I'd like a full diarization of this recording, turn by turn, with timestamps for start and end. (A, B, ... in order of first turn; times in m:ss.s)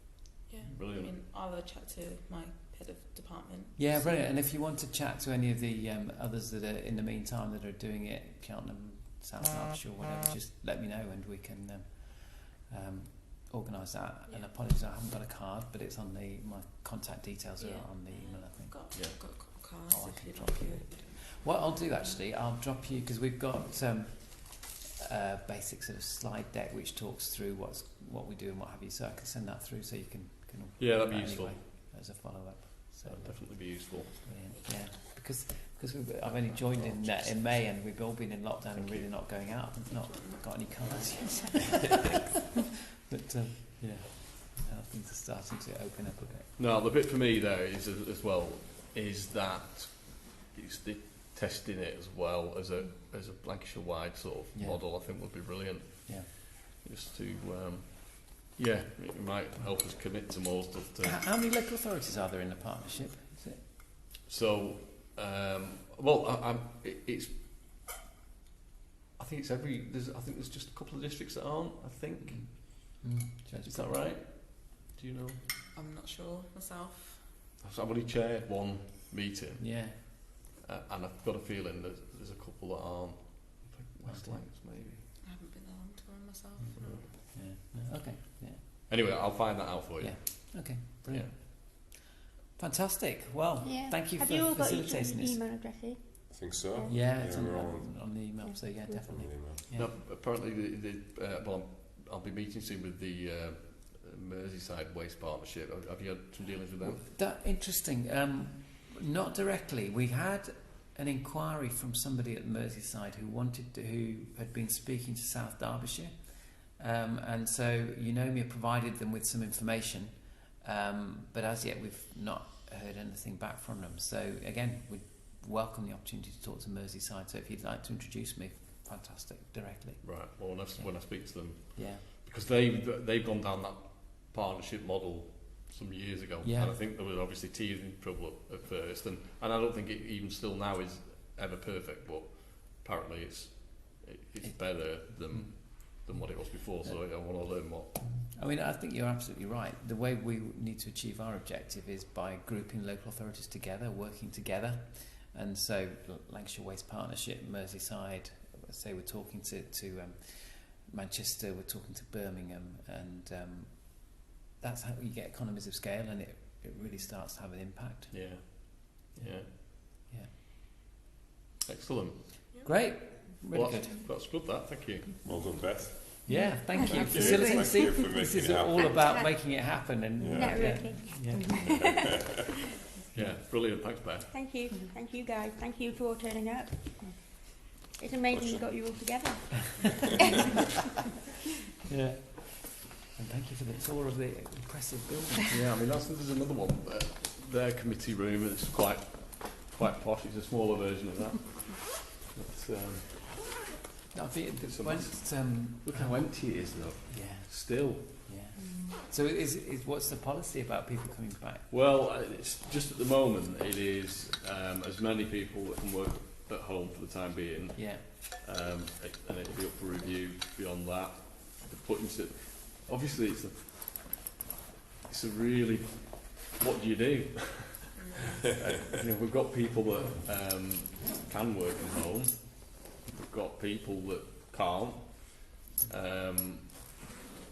0:00.5-0:04.5 A
0:00.7-0:01.1 B
0:03.8-0:42.2 C
0:14.2-0:14.6 A
0:17.6-0:22.2 A
0:30.8-0:31.7 B
0:33.0-0:34.2 B
0:34.5-0:35.0 A
0:36.2-0:37.0 B
0:38.7-0:39.2 B
0:39.5-0:41.7 A
0:43.1-0:46.5 C
0:46.6-1:01.2 B
0:54.5-0:55.4 C
1:01.0-1:04.0 C
1:04.2-1:07.5 B
1:09.2-1:13.0 B
1:12.2-1:14.1 C
1:13.6-1:15.5 B
1:15.7-1:17.4 A
1:17.6-1:25.1 B
1:19.6-1:20.0 C
1:24.0-1:24.4 C
1:25.2-1:27.1 A
1:26.7-1:28.6 C
1:26.8-1:27.1 B
1:28.9-1:31.3 B
1:30.0-1:32.0 C
1:32.6-1:35.4 C
1:33.6-1:37.0 D
1:36.3-1:38.0 E
1:36.9-1:39.9 C
1:38.4-1:39.1 D
1:39.1-1:39.6 E
1:39.7-1:47.1 B
1:46.8-2:12.0 C
2:10.0-2:28.0 B
2:16.4-2:16.7 C
2:24.4-2:26.3 C
2:28.0-2:48.2 C
2:48.1-2:49.5 B
2:49.2-2:50.3 C
2:51.6-2:52.5 B
2:52.5-2:52.8 A
2:52.6-2:54.0 C
2:53.5-2:55.1 B
2:55.2-2:59.4 E
2:56.2-3:01.8 C
2:56.5-2:57.9 D
2:59.0-3:02.1 D
3:00.2-3:01.9 E
3:03.1-3:04.4 B
3:04.3-3:10.4 D
3:08.3-3:09.0 E
3:11.9-3:15.6 C
3:15.5-3:23.6 B
3:24.1-3:26.4 C
3:24.6-3:28.3 B
3:27.1-3:31.7 C
3:28.6-3:28.9 A
3:31.7-3:44.2 B
3:37.7-3:38.0 C
3:45.1-3:56.9 B
3:48.0-3:48.4 A